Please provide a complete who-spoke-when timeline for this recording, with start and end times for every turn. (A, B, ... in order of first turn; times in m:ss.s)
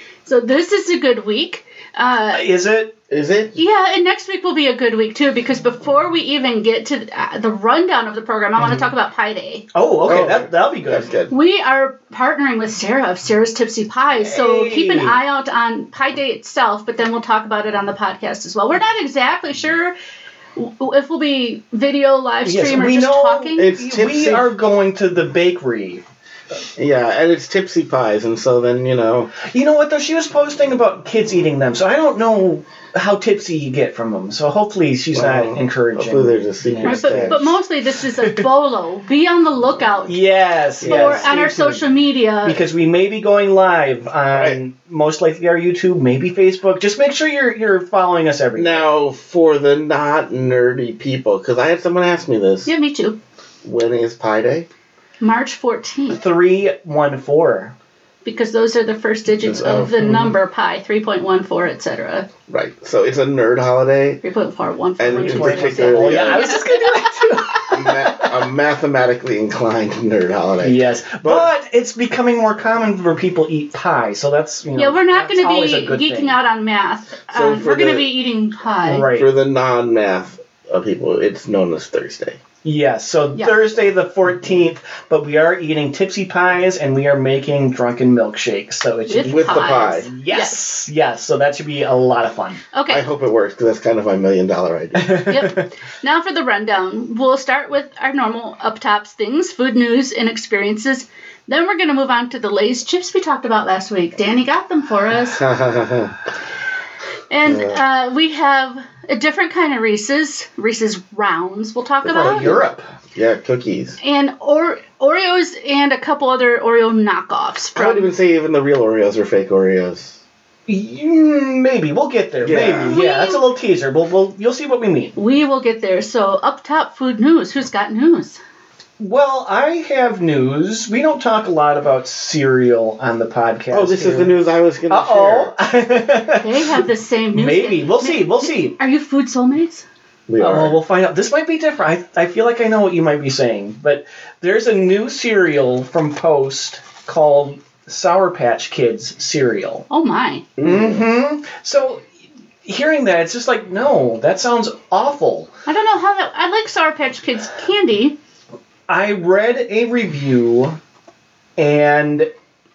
0:00.2-0:02.5 A
0:02.3-0:02.9 B
0:03.1-0:03.6 C
0:03.6-0:09.7 A
0:08.6-0:08.9 B
0:09.7-0:11.1 B
0:10.0-0:11.3 C
0:11.3-0:20.0 A
0:14.2-0:15.2 B
0:20.6-0:23.6 A
0:22.4-0:26.0 B
0:23.6-0:24.5 C
0:26.8-0:29.3 C
0:29.4-0:37.5 B
0:35.1-0:37.6 C
0:36.8-0:40.2 A
0:39.8-0:40.1 C
0:40.1-0:41.8 B
0:40.8-0:42.6 A
0:40.8-0:41.8 C
0:42.4-0:48.9 B
0:44.3-0:44.6 C
0:48.6-0:52.7 C
0:52.7-0:53.2 A
0:53.6-0:54.7 C
0:55.2-0:56.2 A
0:56.1-0:57.7 B
0:58.2-1:02.3 A
0:59.4-1:00.3 C
1:00.0-1:00.3 B
1:02.5-1:04.2 C
1:04.2-1:07.5 A
1:05.0-1:06.5 C
1:05.2-1:08.3 B
1:07.7-1:11.5 C
1:10.6-1:16.4 B
1:14.7-1:19.1 A
1:17.3-1:18.1 C
1:18.8-1:19.3 B
1:19.1-1:22.4 C
1:22.6-1:32.6 B
1:29.1-1:30.7 A
1:29.3-1:30.1 C
1:32.7-1:33.1 A
1:32.9-1:35.2 C
1:35.0-1:35.7 B
1:35.3-1:45.4 A
1:45.3-1:46.2 C
1:47.3-1:52.6 A
1:47.5-1:47.8 C
1:52.0-1:54.0 C
1:52.1-1:52.8 B
1:54.0-1:58.1 A
1:57.8-2:00.2 C
2:00.7-2:05.2 B
2:02.4-2:03.0 C
2:02.8-2:03.4 A
2:05.2-2:08.4 A
2:09.0-2:18.8 B
2:13.7-2:15.5 C
2:16.3-2:19.8 A
2:20.3-2:20.8 C
2:20.4-2:29.8 B
2:29.9-2:30.5 A
2:30.6-2:31.1 C
2:30.6-2:32.1 B
2:32.6-2:35.5 B
2:35.7-2:38.2 A
2:38.9-2:40.8 B
2:41.6-2:42.3 B